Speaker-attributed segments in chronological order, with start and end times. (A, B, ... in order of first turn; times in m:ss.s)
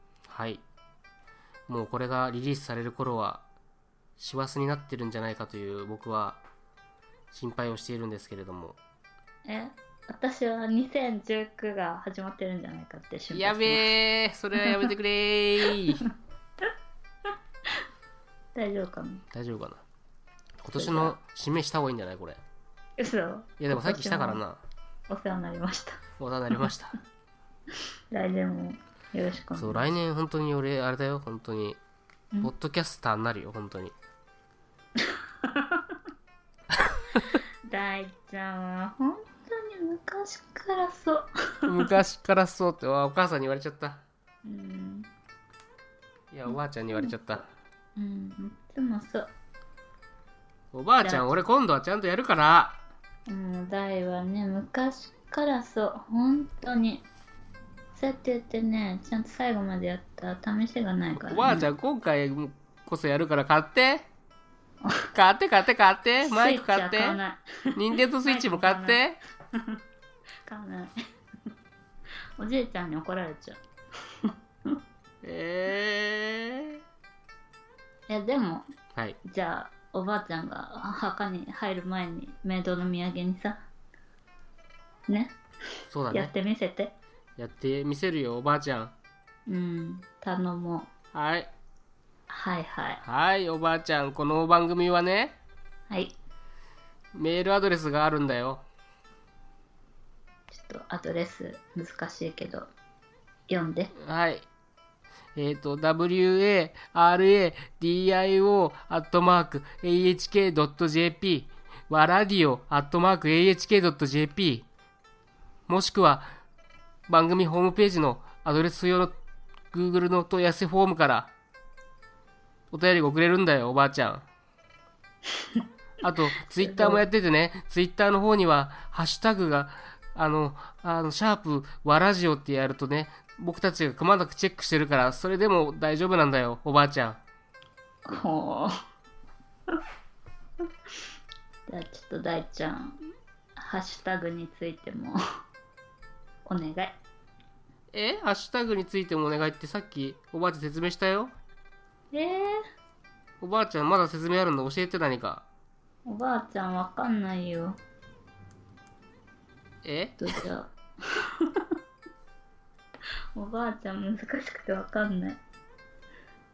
0:00.3-0:00.6 A
0:01.7-0:03.4 A
0:04.2-0:06.4 A
0:07.3-0:08.8 A
0:09.4-0:13.9 B
0:13.3-0:16.0 A
0:14.6-0:14.9 B
0:18.6-0:19.2 B
0:19.3-0:19.8 A
0:20.6-0:22.4 A
0:20.8-0:21.2 B
0:23.0-0:24.4 B
0:23.6-0:24.6 A
0:25.1-0:26.0 B
0:26.2-0:27.0 A
0:28.1-0:29.9 B
0:29.6-0:31.8 A
0:32.4-0:33.9 A
0:35.0-0:36.0 B
0:36.7-0:37.2 A
0:37.7-0:41.9 B
0:41.7-0:44.0 A
0:44.4-0:45.1 B
0:46.3-0:47.5 A
0:46.5-0:47.1 B
0:48.0-0:49.3 B
0:50.7-0:52.8 A
0:51.0-0:51.3 B
0:53.3-0:57.1 B
0:58.0-1:01.7 B
1:01.2-1:04.1 A
1:04.8-1:05.1 B
1:05.1-1:07.2 A
1:06.2-1:09.0 B
1:07.8-1:09.2 A
1:09.5-1:09.8 B
1:10.5-1:10.9 B
1:12.4-1:13.6 B
1:14.2-1:14.8 B
1:15.2-1:16.8 A
1:18.1-1:18.7 B
1:19.2-1:23.6 B
1:25.1-1:25.4 B
1:25.9-1:26.3 A
1:26.1-1:27.0 B
1:27.4-1:28.9 A
1:29.5-1:30.9 B
1:31.1-1:31.5 A
1:32.3-1:33.0 B
1:33.0-1:35.4 A
1:35.9-1:36.2 B
1:37.2-1:38.6 A
1:40.5-1:42.7 B
1:43.5-1:43.9 B
1:44.0-1:44.5 A
1:45.4-1:54.7 A
1:55.7-1:56.4 A
1:57.1-1:59.2 A
1:59.7-2:01.3 A
2:02.7-2:04.3 A
2:05.4-2:05.6 B
2:06.0-2:17.2 A
2:06.4-2:07.0 B
2:18.1-2:18.8 B
2:21.7-2:23.0 B
2:23.6-2:25.2 B
2:26.5-2:27.0 B
2:27.9-2:31.3 A
2:32.1-2:32.6 B
2:33.4-2:35.5 A
2:36.1-2:37.8 B
2:39.8-2:40.4 A
2:40.2-2:41.6 B
2:43.4-2:45.4 B